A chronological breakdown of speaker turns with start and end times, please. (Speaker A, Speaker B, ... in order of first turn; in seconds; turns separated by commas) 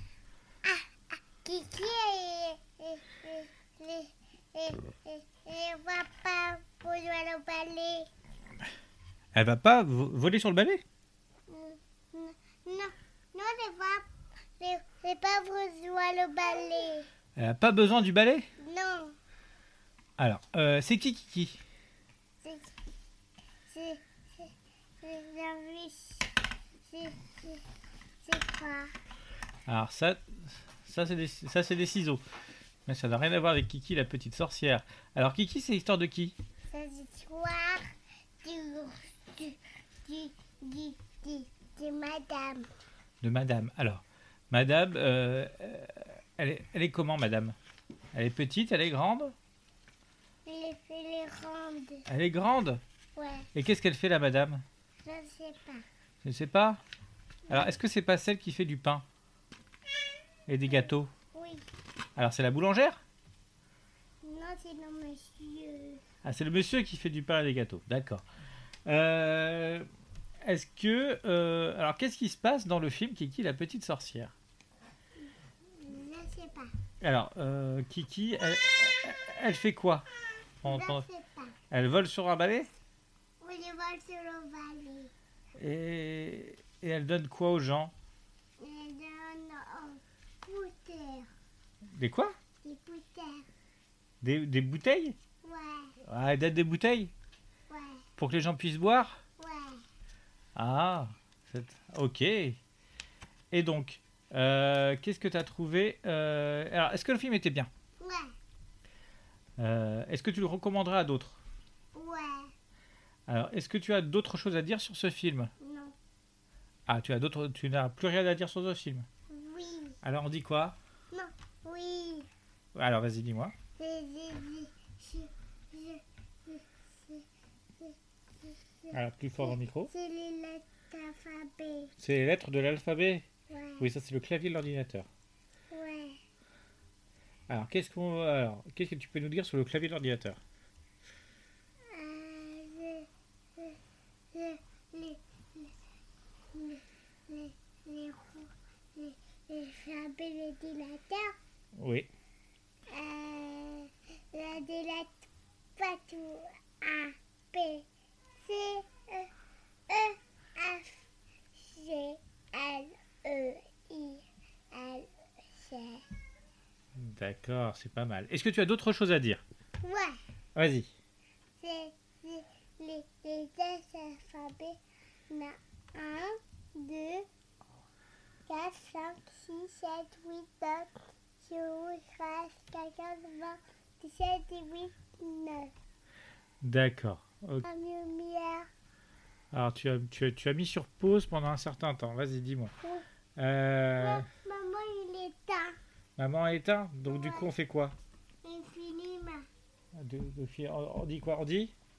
Speaker A: 1.4-8.1, Speaker B: 9.3-10.8, Speaker A: 11.5-14.1, Speaker A: 14.6-17.1, Speaker B: 17.4-18.5, Speaker A: 18.6-19.2, Speaker B: 20.2-21.6, Speaker A: 22.4-22.7, Speaker A: 23.7-27.6, Speaker A: 28.2-28.9, Speaker B: 29.7-30.2, Speaker B: 30.8-32.2, Speaker B: 32.9-36.4, Speaker A: 36.7-37.9, Speaker A: 38.4-42.7, Speaker B: 43.2-47.6, Speaker B: 48.1-49.3, Speaker A: 50.5-52.1, Speaker B: 52.1-52.8, Speaker A: 53.2-53.5, Speaker B: 53.5-54.6, Speaker A: 55.0-55.9, Speaker B: 56.2-56.8, Speaker A: 57.5-57.7, Speaker B: 57.5-59.0, Speaker B: 60.5-61.1, Speaker A: 61.3-61.6, Speaker B: 62.2-63.0, Speaker A: 64.2-66.0, Speaker B: 66.2-68.2, Speaker B: 68.9-69.9, Speaker B: 70.4-74.3, Speaker A: 75.8-76.7, Speaker B: 77.0-80.1, Speaker B: 80.6-81.1, Speaker A: 80.6-81.5, Speaker B: 81.7-82.7, Speaker A: 83.4-85.1, Speaker B: 85.6-87.9, Speaker A: 88.6-91.3, Speaker B: 92.0-92.3, Speaker A: 92.6-93.5, Speaker B: 94.2-95.2, Speaker A: 95.4-95.9, Speaker B: 96.1-97.1, Speaker A: 97.7-98.0, Speaker B: 98.2-99.2, Speaker A: 99.4-99.8, Speaker B: 100.6-102.6, Speaker B: 103.5-107.7, Speaker A: 108.0-108.3, Speaker B: 109.6-111.4, Speaker A: 111.9-112.5, Speaker B: 113.3-115.5, Speaker A: 115.6-116.0, Speaker B: 116.9-119.1, Speaker A: 119.3-120.0, Speaker B: 120.0-120.8, Speaker A: 121.1-122.3, Speaker B: 122.8-123.5, Speaker A: 123.8-127.2, Speaker A: 127.8-131.9, Speaker B: 128.9-129.9, Speaker B: 132.0-133.3, Speaker A: 133.5-133.9, Speaker B: 133.8-135.1, Speaker A: 135.7-136.2, Speaker B: 137.5-140.4, Speaker A: 141.9-143.8, Speaker A: 144.3-145.8, Speaker A: 146.5-151.3, Speaker B: 151.8-152.1, Speaker A: 152.9-157.9, Speaker A: 158.4-159.3, Speaker A: 159.9-166.1, Speaker B: 167.0-169.4, Speaker A: 169.8-170.2, Speaker B: 170.6-170.9, Speaker A: 171.6-174.8, Speaker A: 175.3-177.3, Speaker A: 178.5-185.7, Speaker B: 186.6-187.7, Speaker A: 187.6-188.7, Speaker B: 189.5-192.7, Speaker B: 193.4-194.3, Speaker A: 194.0-195.8, Speaker B: 196.2-197.9, Speaker A: 197.1-197.5, Speaker A: 198.4-199.5, Speaker B: 199.9-201.7